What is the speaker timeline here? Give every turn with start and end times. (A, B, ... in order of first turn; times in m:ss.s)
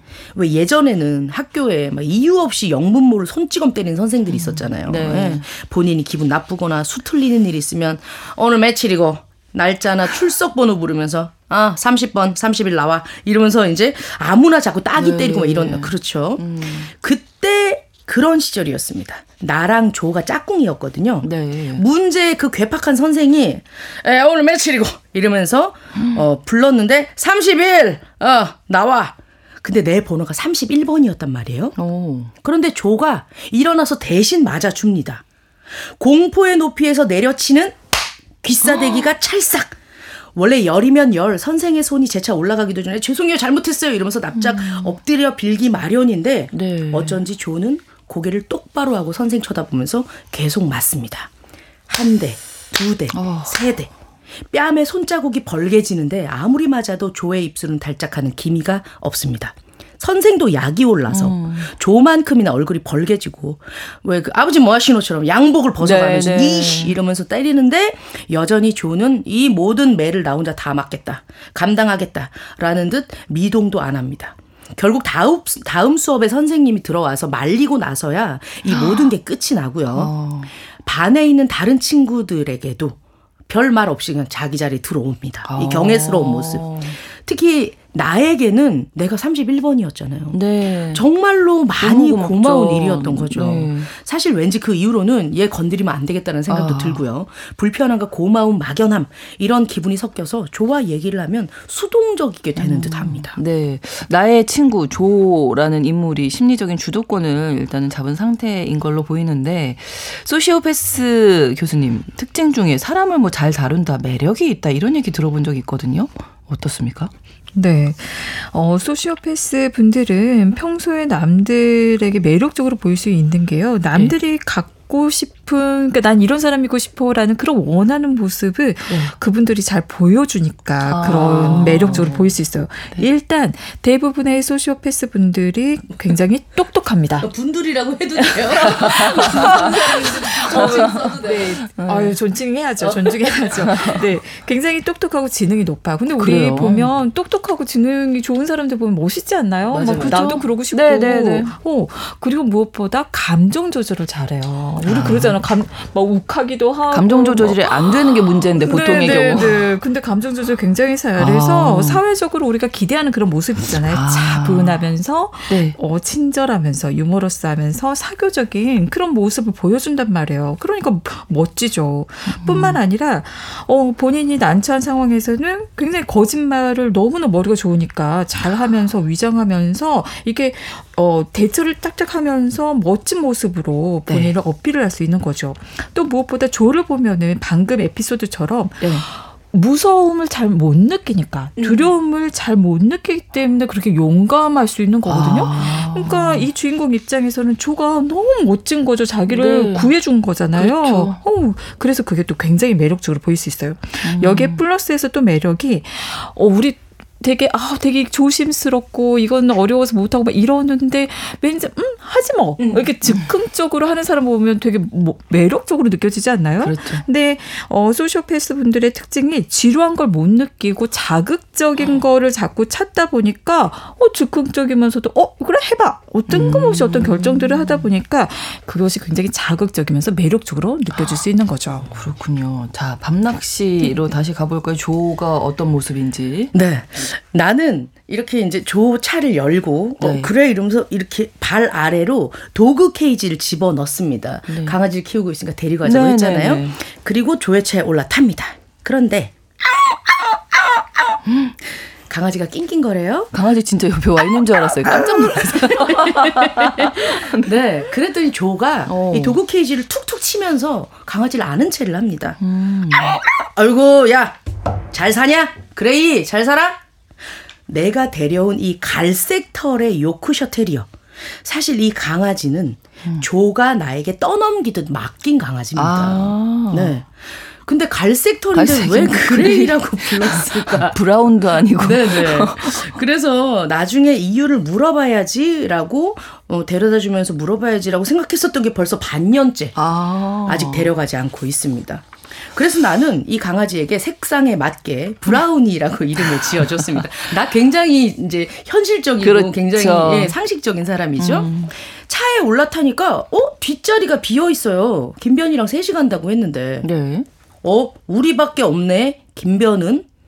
0:00.4-0:31.8 A
0:04.3-0:05.5 B
0:15.0-0:16.9 B
0:21.2-0:21.8 B
0:31.8-0:32.3 B
0:32.4-0:35.2 A
0:36.0-0:37.8 A
0:38.4-0:39.8 A
0:40.4-0:51.3 A
0:44.4-0:45.0 B
0:46.5-0:47.2 B
0:51.9-0:53.9 A
0:53.1-0:53.6 B
0:54.5-1:20.1 A
1:01.1-1:01.7 B
1:05.8-1:07.0 B
1:18.7-1:19.1 B
1:19.9-1:20.5 B
1:20.8-1:23.0 A
1:23.5-1:30.4 A
1:25.5-1:27.0 B
1:30.3-1:31.0 B
1:30.9-1:43.4 A
1:31.8-1:33.9 B
1:36.5-1:37.0 B
1:42.6-1:57.1 B
1:57.5-2:17.3 C
2:10.9-2:12.3 B
2:17.2-2:21.7 A
2:18.5-2:22.2 B
2:19.1-3:51.9 C
2:22.8-2:23.6 A
2:23.6-2:24.0 B
2:26.2-2:26.9 B
2:29.7-2:31.5 B
2:34.8-2:35.4 B
2:36.9-2:39.6 B
2:41.2-2:42.0 B
2:43.8-2:44.8 B
2:45.5-2:45.8 B
2:52.3-2:52.8 B
3:04.1-3:04.4 B
3:11.6-3:11.8 B
3:15.1-3:16.5 B
3:19.3-3:19.9 B
3:20.5-3:21.2 B
3:24.0-3:24.6 B
3:32.6-3:32.9 A
3:36.6-3:37.0 B
3:46.3-3:47.9 B
3:51.8-3:56.5 B
3:56.5-4:10.7 A
4:00.0-4:00.3 B
4:04.5-4:04.8 B
4:05.8-4:06.8 B
4:12.1-4:13.3 A
4:13.3-4:17.6 B
4:14.9-4:22.4 A
4:18.9-4:19.4 B
4:22.4-4:23.2 B
4:23.0-4:24.4 A
4:24.9-4:26.8 A
4:27.7-4:37.1 A
4:35.8-4:37.0 B
4:37.6-4:41.0 A
4:38.5-4:43.0 B
4:41.8-4:49.8 A
4:49.8-4:50.9 B
4:50.5-5:01.5 A
4:56.5-4:56.8 B
4:59.2-5:00.4 B
5:01.2-5:01.7 B
5:02.1-5:06.9 A
5:06.8-5:07.3 B
5:07.6-5:10.1 A